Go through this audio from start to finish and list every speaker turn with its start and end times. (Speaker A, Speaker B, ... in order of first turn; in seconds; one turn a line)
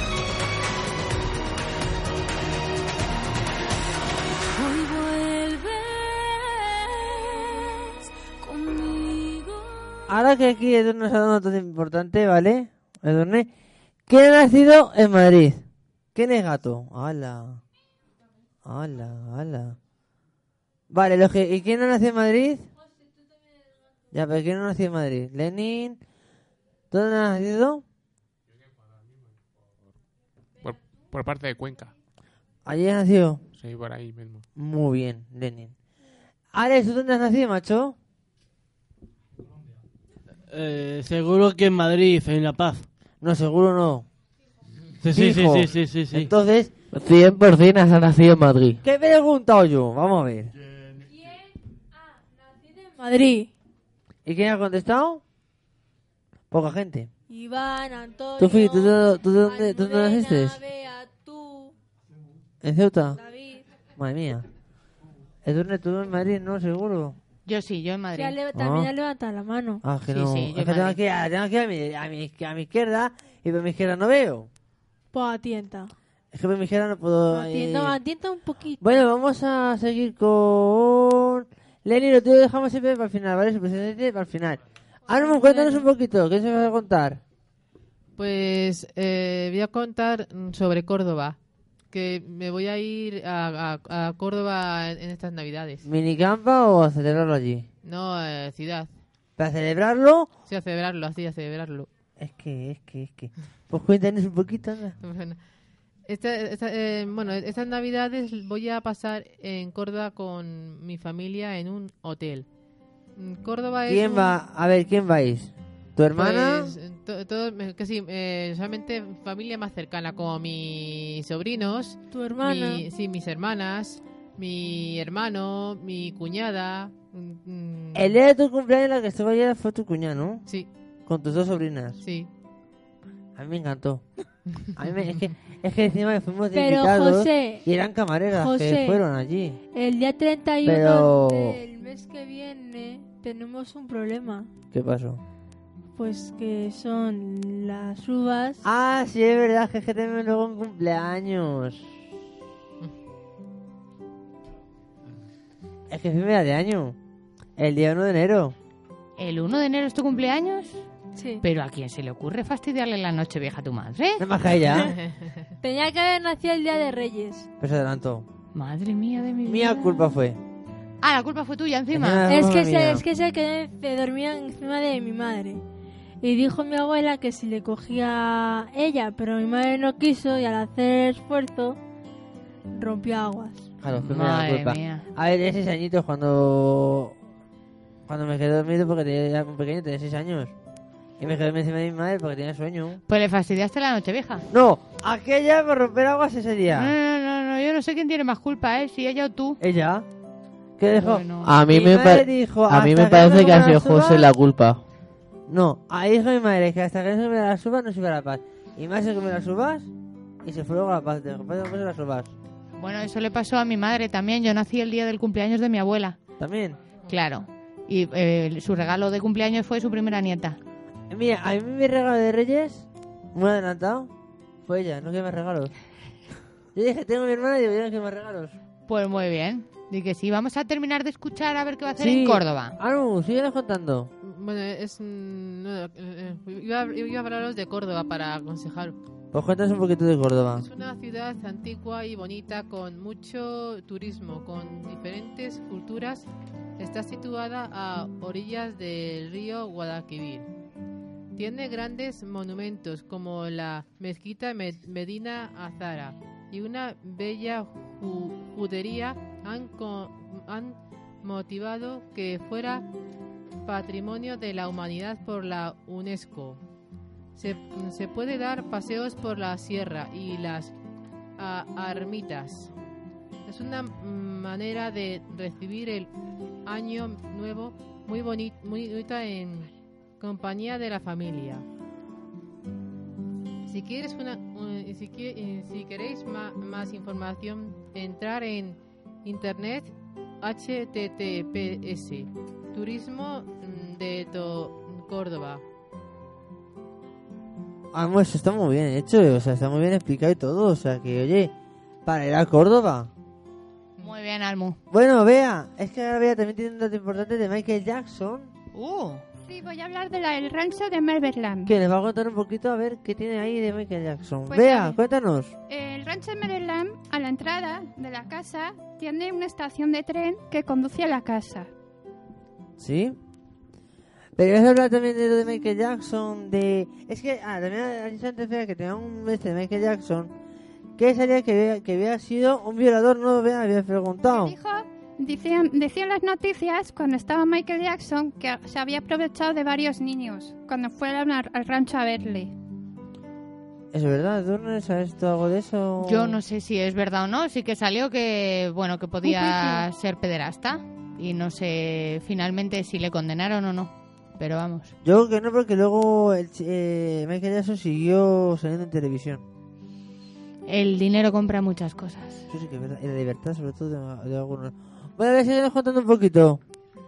Speaker A: 4.5-10.1
Speaker B: 10.1-13.5
Speaker B: 14.1-17.6
Speaker B: 18.6-19.8
Speaker B: 20.9-22.7
Speaker B: 24.1-26.0
Speaker B: 26.9-27.8
Speaker C: 30.6-31.9
Speaker B: 32.6-33.4
Speaker C: 33.5-34.5
Speaker B: 34.5-35.7
Speaker B: 36.5-38.0
Speaker D: 40.5-42.9
Speaker B: 43.2-44.0
Speaker D: 45.0-46.3
Speaker B: 45.1-46.7
Speaker E: 46.9-48.8
Speaker B: 48.8-50.5
Speaker F: 52.5-53.5
Speaker B: 54.2-55.2
Speaker B: 56.5-57.1
Speaker F: 57.3-61.7
Speaker B: 58.4-60.6
Speaker B: 62.6-63.2
Speaker F: 63.2-63.6
Speaker B: 63.9-64.5
Speaker B: 65.4-67.2
Speaker G: 67.5-68.4
Speaker F: 68.1-69.8
Speaker B: 68.5-68.9
Speaker B: 69.8-74.5
Speaker G: 70.1-71.0
Speaker F: 75.1-75.9
Speaker B: 76.3-78.0
Speaker F: 77.3-79.0
Speaker B: 78.8-87.2
Speaker F: 85.1-85.9
Speaker H: 88.2-91.4
Speaker H: 91.9-95.8
Speaker B: 95.8-97.7
Speaker H: 97.8-98.9
Speaker B: 99.4-100.3
Speaker H: 100.5-101.9
Speaker B: 102.2-105.0
Speaker H: 105.0-105.4
Speaker H: 106.1-112.5
Speaker H: 113.2-114.4
Speaker B: 113.9-116.7
Speaker H: 116.1-128.1
Speaker F: 122.1-122.8
Speaker B: 127.9-130.4
Speaker B: 131.1-132.0
Speaker H: 132.0-132.3
Speaker B: 133.3-134.0
Speaker B: 134.7-139.6
Speaker F: 136.5-137.7
Speaker F: 138.3-139.0
Speaker F: 139.7-144.5
Speaker B: 140.6-141.6
Speaker B: 144.7-145.2
Speaker F: 145.9-148.6
Speaker B: 148.6-151.9
Speaker B: 155.9-157.0
Speaker B: 157.6-158.5
Speaker G: 159.2-160.8
Speaker F: 161.2-161.4
Speaker G: 161.4-164.2
Speaker B: 164.2-164.9
Speaker H: 164.8-165.3
Speaker F: 165.6-167.5
Speaker B: 167.6-168.3
Speaker G: 168.5-170.2
Speaker B: 169.4-170.4
Speaker G: 171.0-172.3
Speaker B: 171.9-173.0
Speaker F: 172.3-175.6
Speaker F: 176.2-181.8
Speaker F: 182.7-183.7
Speaker B: 183.8-187.2
Speaker G: 183.9-185.1
Speaker B: 188.1-190.5
Speaker B: 191.2-193.0
Speaker G: 193.1-194.4
Speaker B: 194.5-196.9
Speaker G: 196.7-199.6
Speaker B: 199.6-200.1
Speaker B: 200.8-204.3
Speaker G: 201.0-201.5
Speaker E: 201.4-204.8
Speaker B: 205.5-209.9
Speaker B: 210.4-212.3
Speaker G: 212.8-216.2
Speaker B: 216.4-216.8
Speaker G: 217.1-220.6
Speaker B: 221.1-224.1
Speaker B: 224.6-225.7
Speaker B: 226.7-228.5
Speaker G: 228.9-232.8
Speaker B: 231.9-234.1
Speaker H: 234.2-238.9
Speaker B: 239.3-240.7
Speaker H: 240.5-250.5
Speaker H: 251.3-262.9
Speaker H: 263.6-266.6
Speaker H: 267.3-270.7
Speaker H: 271.4-272.7
Speaker H: 273.4-276.1
Speaker H: 276.6-281.6
Speaker H: 283.7-295.6
Speaker B: 297.9-301.5
Speaker B: 302.0-303.1
Speaker G: 304.0-304.8
Speaker B: 304.9-308.5
Speaker G: 308.7-309.2
Speaker I: 309.4-311.7
Speaker B: 311.6-315.5
Speaker I: 314.5-315.0
Speaker I: 315.7-321.7
Speaker B: 322.8-323.2
Speaker B: 324.4-330.3
Speaker B: 331.0-334.5
Speaker I: 334.3-342.5
Speaker B: 343.9-346.4
Speaker G: 346.0-354.9
Speaker I: 349.2-349.8
Speaker B: 355.0-359.4
Speaker G: 360.7-362.5
Speaker B: 362.5-366.6